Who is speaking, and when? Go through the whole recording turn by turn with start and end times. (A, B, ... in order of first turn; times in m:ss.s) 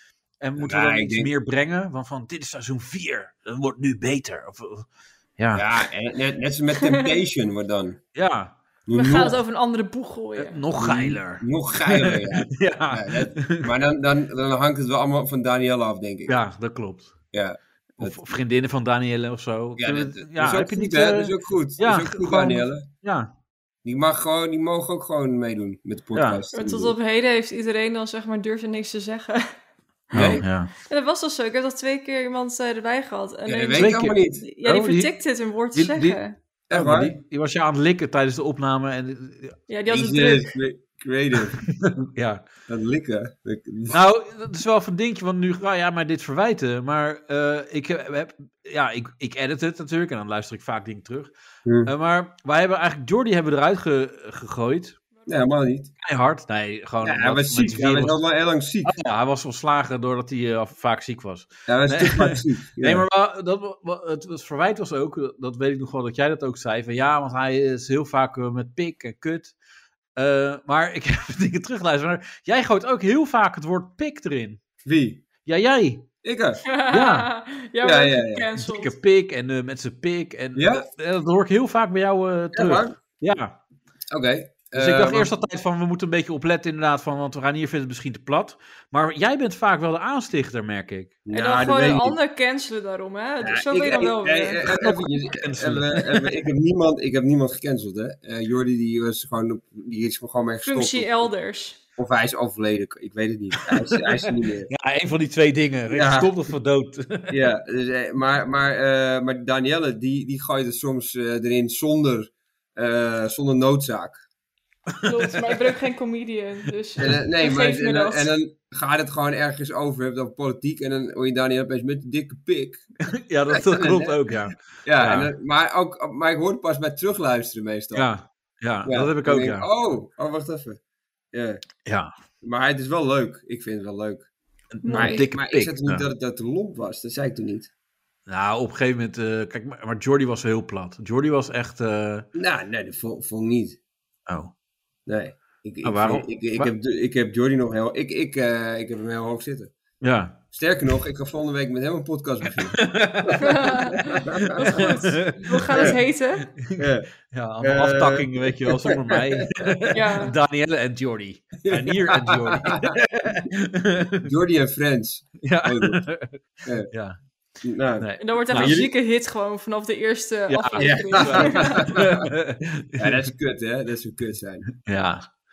0:00.4-0:05.7 A
0:00.6-0:01.3 B
0:05.5-0:08.0 B
0:06.8-0:07.1 C
0:08.2-0:08.6 A
0:08.9-0:09.4 B
0:08.9-0:10.6 C
0:10.4-0:13.7 A
0:10.8-0:16.4 B
0:16.3-0:17.2 A
0:17.3-0:18.2 B
0:18.0-0:23.3 A
0:19.8-0:22.9 B
0:23.8-0:27.0 B
0:26.1-0:26.4 A
0:26.5-0:29.6 C
0:30.1-0:30.4 B
0:30.1-0:30.7 A
0:30.8-0:36.3 C
0:33.5-0:34.4 B
0:33.8-0:35.1 A
0:35.7-0:39.6 A
0:36.7-0:37.2 B
0:39.7-0:40.5 C
0:39.9-0:41.6 B
0:41.7-0:42.5 A
0:42.7-0:44.0 B
0:43.9-0:51.3 A
0:51.7-0:51.9 B
0:51.8-0:55.0 A
0:55.3-0:55.9 B
0:56.0-0:58.2 A
0:57.0-0:59.0 B
0:58.8-1:09.6 A
1:01.7-1:03.1 B
1:10.2-1:14.6 A
1:14.8-1:15.2 B
1:15.4-1:16.1 A
1:16.2-1:16.6 B
1:16.7-1:18.9 C
1:16.9-1:17.3 A
1:17.8-1:18.5 B
1:18.6-1:23.6 A
1:20.6-1:20.9 B
1:22.5-1:23.0 B
1:24.1-1:25.3 B
1:24.7-1:31.2 A
1:31.3-1:32.2 B
1:31.3-1:34.6 C
1:33.4-1:41.3 B
1:34.7-1:36.3 A
1:40.6-1:41.8 C
1:42.0-1:44.7 B
1:43.6-1:47.4 A
1:45.9-1:46.3 B
1:47.3-1:54.2 B
1:54.9-1:55.6 A
1:55.0-1:58.3 C
1:57.0-2:02.8 B
2:03.1-2:05.3 A
2:03.5-2:04.3 B
2:04.8-2:08.1 B
2:07.9-2:09.7 A
2:08.8-2:10.8 B
2:11.3-2:11.6 B
2:11.8-2:12.1 A
2:12.4-2:14.3 B
2:14.8-2:16.0 A
2:14.8-2:15.3 C
2:14.9-2:17.7 B
2:18.3-2:22.3 A
2:22.4-2:23.8 B
2:24.3-2:24.5 A
2:25.1-2:29.7 B
2:25.8-2:26.7 A
2:30.0-2:30.4 A
2:30.5-2:34.8 B
2:32.7-2:33.7 A
2:33.4-2:36.5 C
2:34.8-2:36.0 A
2:36.6-2:44.3 A
2:36.8-2:39.6 B
2:39.9-2:40.3 C
2:41.6-2:43.0 B
2:44.2-2:46.0 B
2:45.4-2:47.2 A
2:46.6-2:46.9 B
2:47.6-2:48.9 B
2:48.0-2:48.8 A
2:48.2-2:51.9 C
2:50.5-2:53.2 A
2:50.8-2:52.3 B
2:53.0-2:54.7 B
2:54.8-2:55.3 A